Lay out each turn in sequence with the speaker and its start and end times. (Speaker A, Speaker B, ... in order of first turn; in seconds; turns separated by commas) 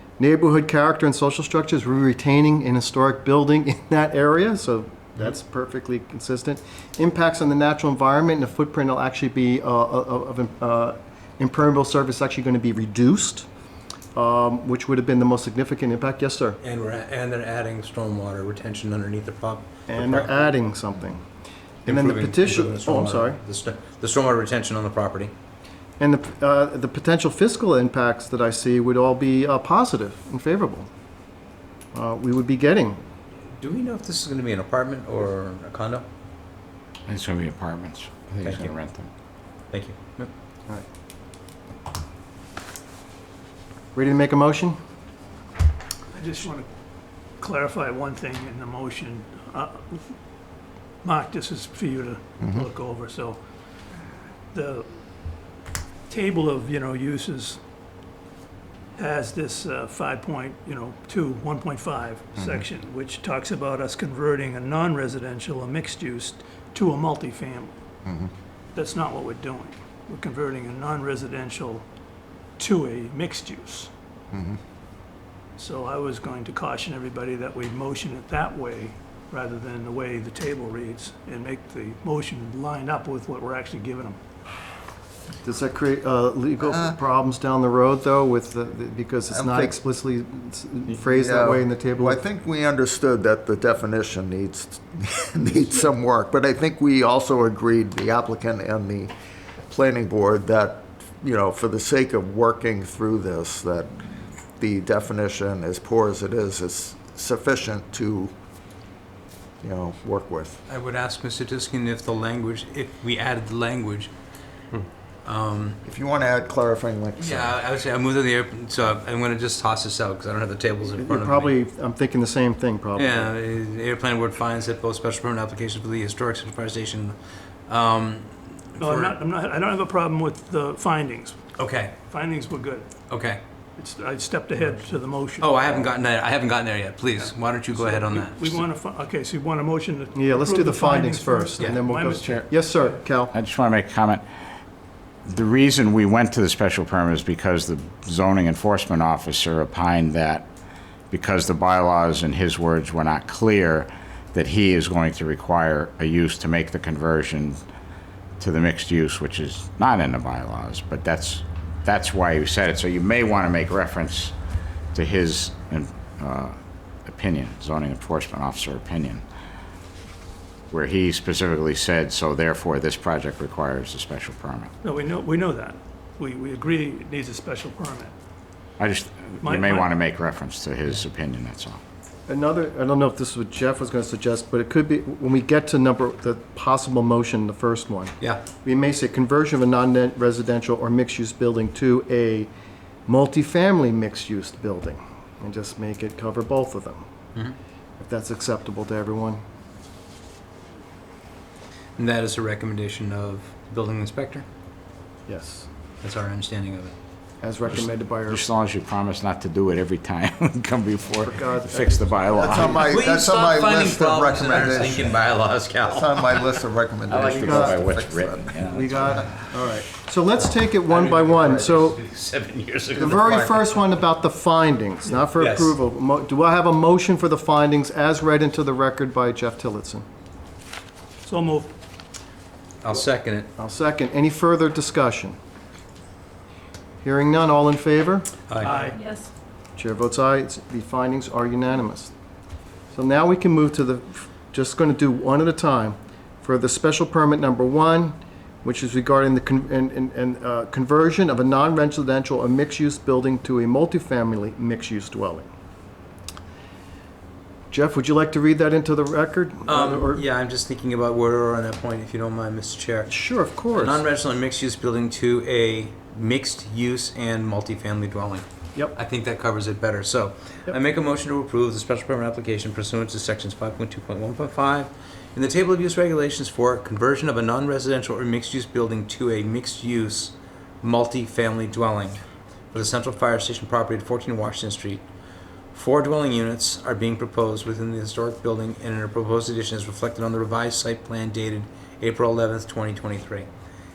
Speaker A: 0.2-13.5, Speaker A: 14.1-16.6, Speaker B: 16.6-20.5, Speaker A: 19.9-21.2, Speaker B: 21.8-25.3, Speaker A: 21.9-23.4, Speaker A: 26.0-30.9, Speaker A: 31.9-33.0, Speaker B: 33.6-36.0, Speaker C: 37.1-39.1, Speaker B: 38.4-38.7, Speaker B: 39.7-40.3, Speaker A: 43.9-44.8, Speaker D: 46.1-46.7, Speaker D: 47.4-50.1, Speaker D: 51.0-53.4, Speaker D: 54.5-54.9, Speaker D: 56.1-57.6, Speaker D: 58.9-67.7, Speaker D: 68.7-71.8, Speaker D: 72.6-73.9, Speaker E: 74.3-74.6, Speaker D: 75.6-84.2, Speaker A: 85.4-92.2, Speaker E: 86.6-87.0, Speaker E: 89.3-89.8, Speaker E: 90.9-99.1, Speaker E: 99.7-108.3, Speaker E: 109.6-110.6, Speaker B: 110.7-114.1, Speaker B: 115.2-115.8, Speaker E: 115.8-117.6, Speaker B: 117.2-121.5, Speaker A: 121.0-123.3, Speaker B: 122.9-127.2, Speaker B: 127.7-129.2, Speaker D: 128.8-131.4, Speaker B: 131.6-131.9, Speaker D: 132.0-132.9, Speaker B: 133.1-133.4, Speaker D: 133.8-135.6, Speaker B: 135.4-138.6, Speaker D: 137.2-142.5, Speaker A: 140.1-143.3, Speaker C: 143.3-144.2, Speaker C: 145.2-150.5, Speaker C: 151.1-157.6, Speaker C: 158.4-164.3, Speaker C: 164.9-169.2, Speaker C: 170.7-174.7, Speaker D: 174.8-178.1, Speaker C: 178.8-181.8, Speaker D: 179.4-179.9, Speaker A: 182.3-192.5, Speaker A: 193.1-197.0, Speaker A: 198.0-199.4, Speaker B: 202.0-204.4, Speaker A: 205.3-205.7, Speaker B: 206.0-206.9, Speaker A: 207.4-208.4, Speaker C: 207.7-212.8, Speaker A: 211.2-212.8, Speaker E: 212.3-219.1, Speaker B: 212.8-216.5, Speaker C: 217.1-219.3, Speaker A: 217.3-217.8, Speaker A: 218.6-222.0, Speaker B: 220.7-223.4, Speaker E: 222.9-223.8, Speaker A: 223.0-230.0, Speaker B: 225.4-225.8, Speaker D: 231.2-231.7, Speaker B: 232.8-233.5, Speaker A: 233.6-235.4, Speaker A: 237.0-238.3, Speaker D: 238.6-239.2, Speaker A: 239.8-242.1, Speaker A: 242.9-255.5, Speaker A: 257.7-260.2, Speaker B: 259.6-285.0, Speaker A: 263.1-264.0, Speaker B: 285.7-293.5